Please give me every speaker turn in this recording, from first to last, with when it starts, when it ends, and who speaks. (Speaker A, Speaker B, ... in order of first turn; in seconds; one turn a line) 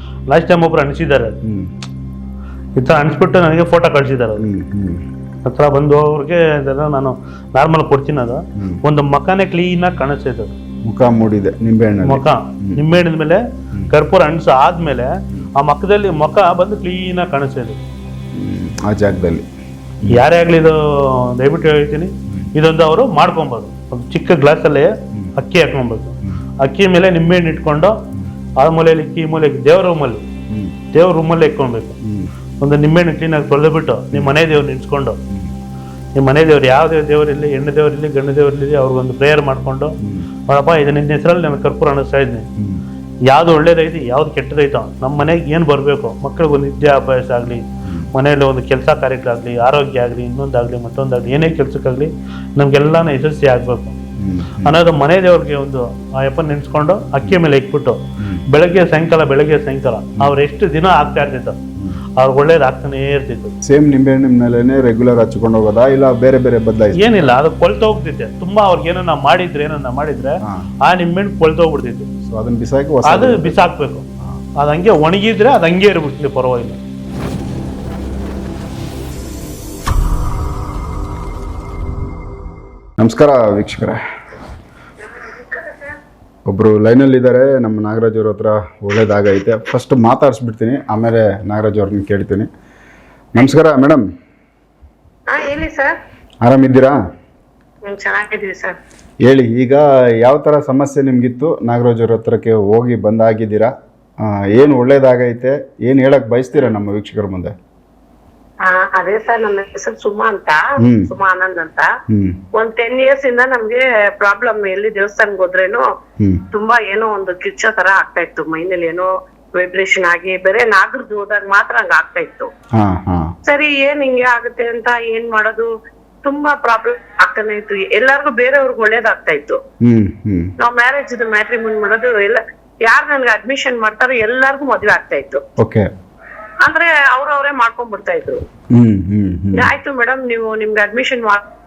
Speaker A: 0.3-1.3
Speaker B: 1.5-1.7
Speaker A: 2.8-4.5
Speaker B: 4.4-5.0
Speaker A: 5.5-10.6
Speaker B: 8.6-8.8
Speaker B: 10.8-12.8
Speaker A: 12.0-17.8
Speaker B: 18.3-19.5
Speaker B: 20.0-20.2
Speaker A: 20.1-28.0
Speaker A: 28.6-30.2
Speaker B: 30.5-30.8
Speaker A: 30.9-32.0
Speaker B: 32.0-32.3
Speaker A: 32.6-35.2
Speaker B: 34.1-34.4
Speaker A: 36.2-42.5
Speaker B: 40.0-40.3
Speaker B: 42.6-42.8
Speaker A: 43.3-54.0
Speaker B: 54.2-54.8
Speaker A: 54.6-61.6
Speaker B: 58.2-58.5
Speaker A: 62.2-63.5
Speaker B: 63.6-67.1
Speaker A: 67.0-72.1
Speaker B: 72.2-73.6
Speaker A: 73.0-74.1
Speaker A: 74.6-76.8
Speaker B: 83.0-84.0
Speaker C: 85.1-86.0
Speaker B: 86.5-92.5
Speaker B: 93.3-94.0
Speaker C: 95.3-96.0
Speaker B: 96.4-97.0
Speaker C: 97.9-98.8
Speaker B: 99.2-107.5
Speaker C: 108.7-111.9
Speaker B: 110.8-111.1
Speaker B: 112.1-112.4
Speaker C: 112.5-115.9
Speaker C: 116.5-122.5
Speaker B: 122.8-123.3
Speaker C: 123.5-125.7
Speaker C: 126.2-129.6
Speaker B: 129.8-130.5
Speaker C: 130.6-135.4
Speaker B: 135.6-135.9
Speaker C: 136.6-138.4
Speaker B: 138.7-139.7
Speaker C: 139.5-141.4